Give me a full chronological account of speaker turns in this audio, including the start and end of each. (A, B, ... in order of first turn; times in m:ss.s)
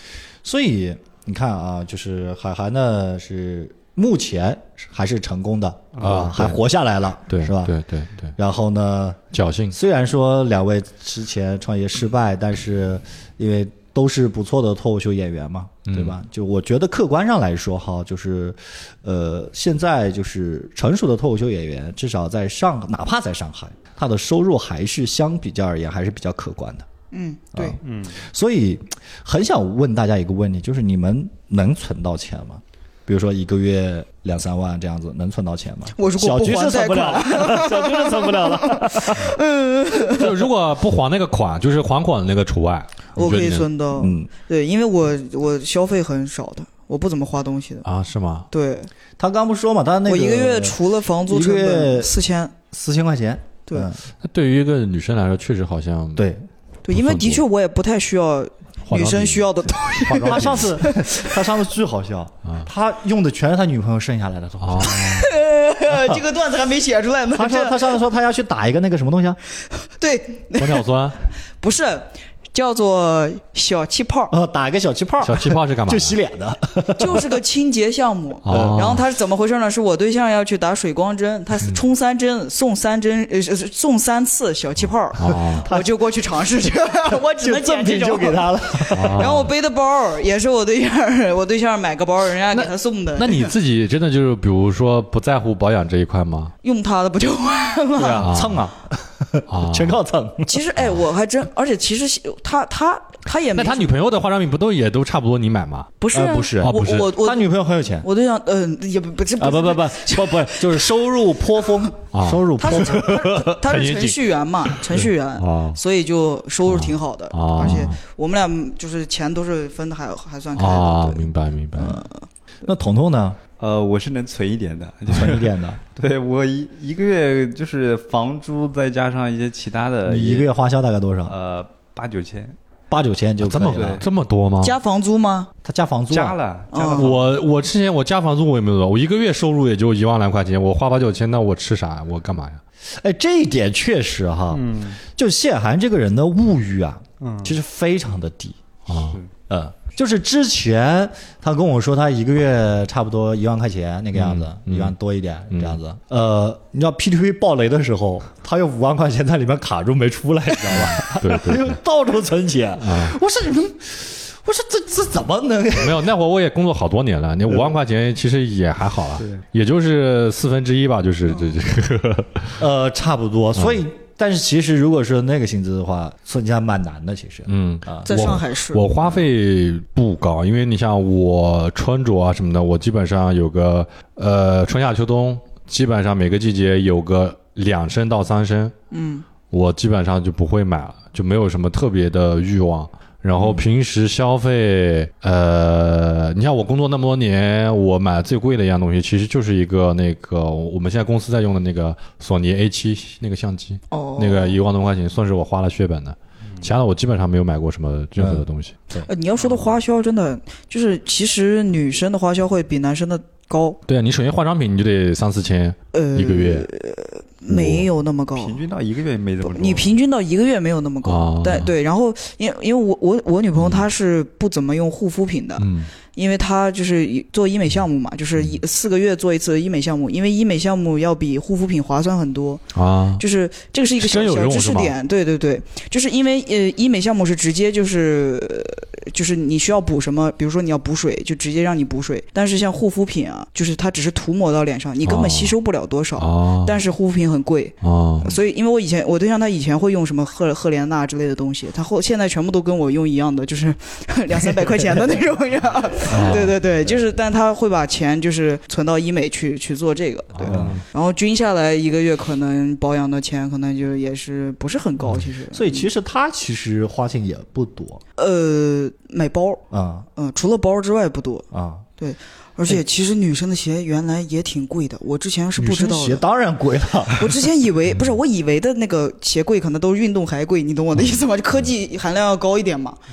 0:00.4-0:07.7 A
0:06.0-0:06.2 B
0:06.0-0:06.6 C
0:07.3-0:08.3 C
0:08.4-0:09.2 A
0:09.3-0:09.8 C
0:09.7-0:26.9 A
0:15.9-0:16.2 C
0:27.1-0:27.8 D
0:27.5-0:39.4 A
0:27.8-0:28.2 B
0:36.0-0:40.3 D
0:40.1-0:43.7 C
0:43.1-0:47.8 D
0:43.9-0:44.3 A
0:47.8-0:48.5 C
0:48.5-0:48.9 D
0:49.2-0:52.1 A
0:50.0-0:52.5 D
0:52.7-0:54.0 A
0:54.2-0:56.3 C
0:56.2-0:56.4 A
0:56.8-1:01.3 D
0:56.9-0:57.4 C
0:58.9-1:00.7 C
1:00.2-1:05.2 A
1:04.6-1:05.3 C
1:04.8-1:08.0 D
1:05.9-1:06.2 A
1:07.3-1:09.4 A
1:09.8-1:10.9 D
1:10.6-1:11.2 C
1:11.6-1:14.3 D
1:14.3-1:17.4 A
1:15.2-1:16.2 C
1:17.0-1:33.5 D
1:18.4-1:19.0 C
1:18.4-1:18.9 A
1:25.2-1:25.7 C
1:25.2-1:25.9 A
1:27.1-1:29.4 A
1:28.9-1:29.5 C
1:32.5-1:36.5 C
1:36.6-1:38.3 D
1:38.0-1:40.6 A
1:38.2-1:38.6 C
1:39.5-1:40.0 C
1:40.4-1:43.9 D
1:43.5-1:46.0 C
1:46.0-1:47.5 D
1:46.1-1:48.1 A
1:46.6-1:47.1 C
1:48.0-1:50.9 D
1:49.4-1:53.2 A
1:52.1-1:55.8 C
1:52.6-2:02.2 D
1:56.6-1:58.0 C
2:00.5-2:02.0 C
2:02.6-2:03.4 A
2:03.6-2:10.5 B
2:05.1-2:05.8 A
2:10.0-2:11.3 A
2:11.2-2:12.6 B
2:12.9-2:14.0 A
2:13.4-2:14.8 C
2:13.6-2:14.0 B
2:14.6-2:15.5 D
2:15.6-2:16.4 A
2:16.1-2:17.2 B
2:16.7-2:17.2 D
2:16.9-2:22.6 C
2:23.0-2:28.6 A
2:24.5-2:25.0 B
2:27.2-2:27.6 B
2:28.9-2:29.2 C
2:29.5-2:46.1 A
2:34.1-2:34.9 C
2:35.5-2:35.8 C
2:40.7-2:41.8 C
2:42.8-2:43.2 C
2:45.8-2:52.6 C
2:47.5-2:47.7 A
2:52.6-2:58.4 A
2:53.6-2:53.8 C
2:57.5-3:08.7 C
2:58.0-2:58.9 D
3:08.9-3:09.2 D
3:09.5-3:28.8 C
3:23.9-3:24.6 D
3:28.2-3:29.1 A
3:29.0-3:33.8 D
3:33.9-3:36.7 C
3:35.9-3:38.6 D
3:37.5-3:37.8 C
3:38.3-3:39.9 B
3:39.4-3:52.6 D
3:41.0-3:41.7 C
3:43.6-3:43.8 C
3:45.6-3:45.9 C
3:52.7-3:53.2 C
3:53.2-4:25.9 D
3:54.0-3:54.9 C
4:05.0-4:05.6 C
4:06.2-4:06.8 C
4:07.8-4:08.3 C
4:16.1-4:16.5 C
4:16.1-4:16.4 A
4:20.3-4:20.8 C
4:20.4-4:20.8 A
4:25.5-4:28.0 A
4:28.2-4:29.6 D
4:29.7-4:30.1 A
4:30.2-4:31.5 D
4:31.5-4:31.8 A
4:32.0-4:36.2 D
4:35.6-4:37.3 A
4:37.1-4:43.0 D